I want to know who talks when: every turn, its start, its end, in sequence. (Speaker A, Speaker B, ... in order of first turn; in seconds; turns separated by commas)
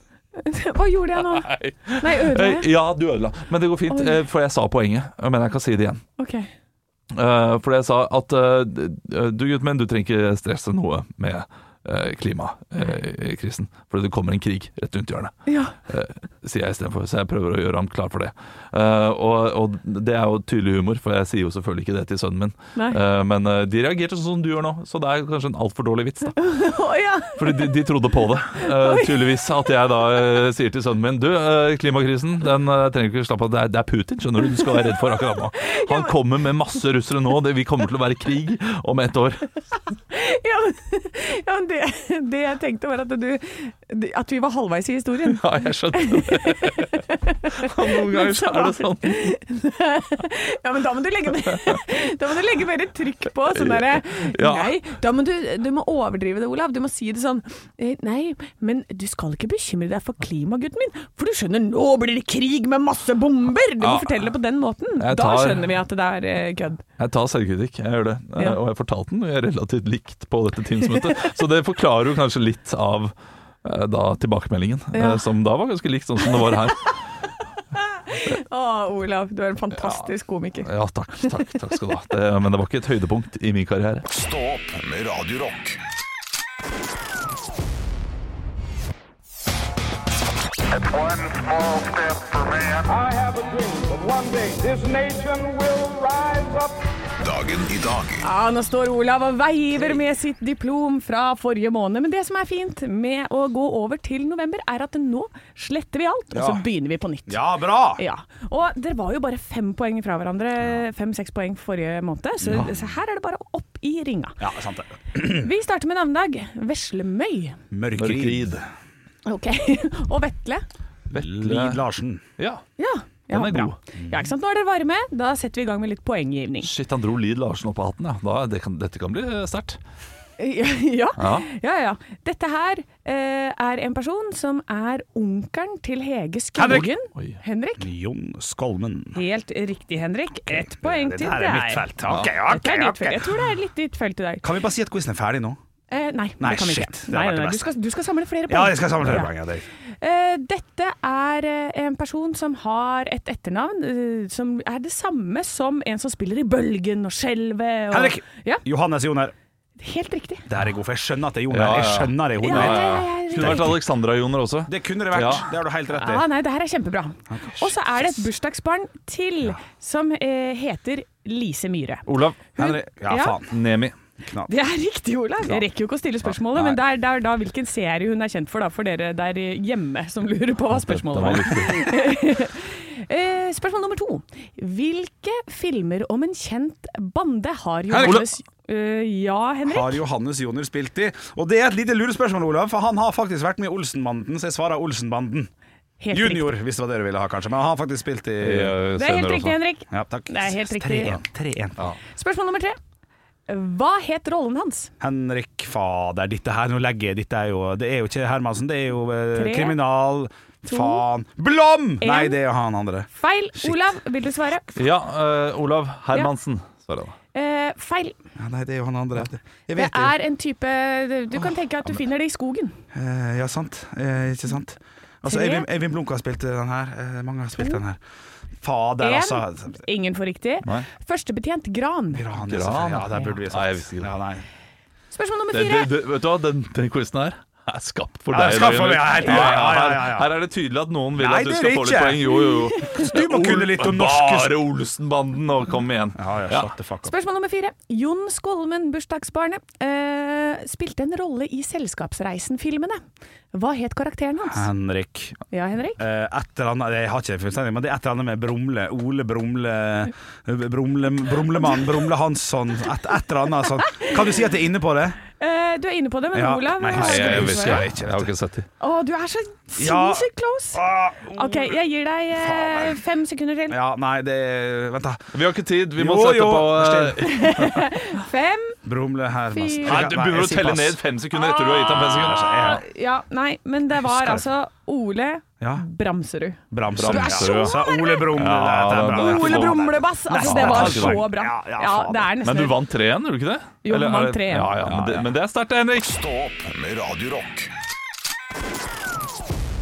Speaker A: 0.3-2.7, Speaker B: 1.2-6.0, Speaker A: 6.2-6.5, Speaker B: 7.1-15.3, Speaker A: 15.5-15.8, Speaker B: 15.9-26.4, Speaker A: 22.8-23.0, Speaker A: 26.4-27.9, Speaker B: 27.4-39.5, Speaker A: 28.6-29.4, Speaker A: 35.6-36.1, Speaker A: 40.1-66.8, Speaker B: 45.3-49.4, Speaker B: 53.5-54.8, Speaker B: 63.8-64.2, Speaker B: 65.0-65.7, Speaker B: 67.0-77.0, Speaker A: 74.9-75.3, Speaker A: 77.8-80.7, Speaker B: 79.8-80.1, Speaker B: 80.6-84.1, Speaker C: 84.1-85.8, Speaker D: 90.8-93.0, Speaker E: 92.9-96.7, Speaker C: 97.2-98.2, Speaker A: 98.2-114.4, Speaker F: 106.3-106.6, Speaker F: 107.3-108.0, Speaker F: 112.4-112.8, Speaker F: 114.4-115.5, Speaker A: 115.2-117.6, Speaker F: 117.7-118.5, Speaker B: 118.0-118.7, Speaker A: 119.3-120.7, Speaker F: 121.1-122.2, Speaker B: 121.1-121.8, Speaker B: 122.4-122.6, Speaker A: 122.8-126.7, Speaker B: 123.3-123.8, Speaker B: 126.6-129.8, Speaker A: 130.4-137.9, Speaker B: 131.2-131.5, Speaker F: 136.6-136.9, Speaker B: 136.7-137.4, Speaker F: 137.8-139.2, Speaker A: 139.1-144.5, Speaker F: 140.5-143.4, Speaker F: 144.4-145.6, Speaker A: 145.9-149.3, Speaker F: 146.4-147.7, Speaker F: 148.5-149.7, Speaker A: 150.0-158.6, Speaker F: 157.9-159.3, Speaker A: 159.8-160.5, Speaker F: 160.5-163.7, Speaker B: 161.5-165.5, Speaker A: 162.4-163.8, Speaker F: 164.7-166.3, Speaker A: 166.0-172.1, Speaker F: 167.3-167.7, Speaker B: 172.1-172.6, Speaker F: 172.6-173.6, Speaker A: 172.6-173.4, Speaker B: 173.5-173.9, Speaker F: 174.2-174.5, Speaker A: 174.5-190.0, Speaker B: 176.5-176.8, Speaker B: 180.7-182.0, Speaker F: 187.9-188.3, Speaker F: 189.7-195.5, Speaker A: 196.0-196.6, Speaker F: 196.1-198.8, Speaker B: 198.4-199.6, Speaker A: 199.0-201.2, Speaker F: 199.9-201.9, Speaker A: 202.1-202.8, Speaker A: 203.5-204.9, Speaker F: 205.0-213.8, Speaker A: 209.3-209.8, Speaker A: 210.7-211.0, Speaker A: 212.0-212.4, Speaker A: 213.1-214.8, Speaker B: 214.8-217.2, Speaker A: 217.3-218.2, Speaker F: 218.4-220.2, Speaker A: 219.8-222.8, Speaker F: 222.9-228.0, Speaker A: 225.2-225.7, Speaker F: 228.6-229.8, Speaker A: 229.0-232.3, Speaker F: 232.1-234.5, Speaker B: 232.4-234.1, Speaker A: 235.1-235.9, Speaker B: 235.5-246.7, Speaker F: 238.3-240.3, Speaker F: 241.2-244.6, Speaker A: 242.4-243.0, Speaker F: 246.2-247.1, Speaker A: 247.0-253.0, Speaker A: 253.5-254.7, Speaker F: 254.5-255.4, Speaker A: 255.5-256.0, Speaker F: 256.0-265.2, Speaker A: 263.9-264.1, Speaker A: 265.4-267.9, Speaker F: 266.3-268.3, Speaker B: 266.9-268.7, Speaker A: 268.8-270.8, Speaker F: 269.8-271.8, Speaker A: 271.4-273.8, Speaker F: 272.4-273.0, Speaker F: 273.7-275.3, Speaker B: 275.3-277.9, Speaker F: 276.0-277.3, Speaker A: 277.2-278.8, Speaker F: 278.9-281.0, Speaker A: 279.5-280.1, Speaker B: 279.8-282.8, Speaker A: 281.3-288.4, Speaker F: 281.8-282.8, Speaker F: 284.1-284.4, Speaker F: 285.6-285.9, Speaker F: 286.7-292.3, Speaker B: 286.9-289.8, Speaker A: 289.1-292.8, Speaker B: 290.4-291.2, Speaker B: 292.4-296.1, Speaker A: 293.8-294.8, Speaker F: 294.8-295.3, Speaker C: 296.0-297.7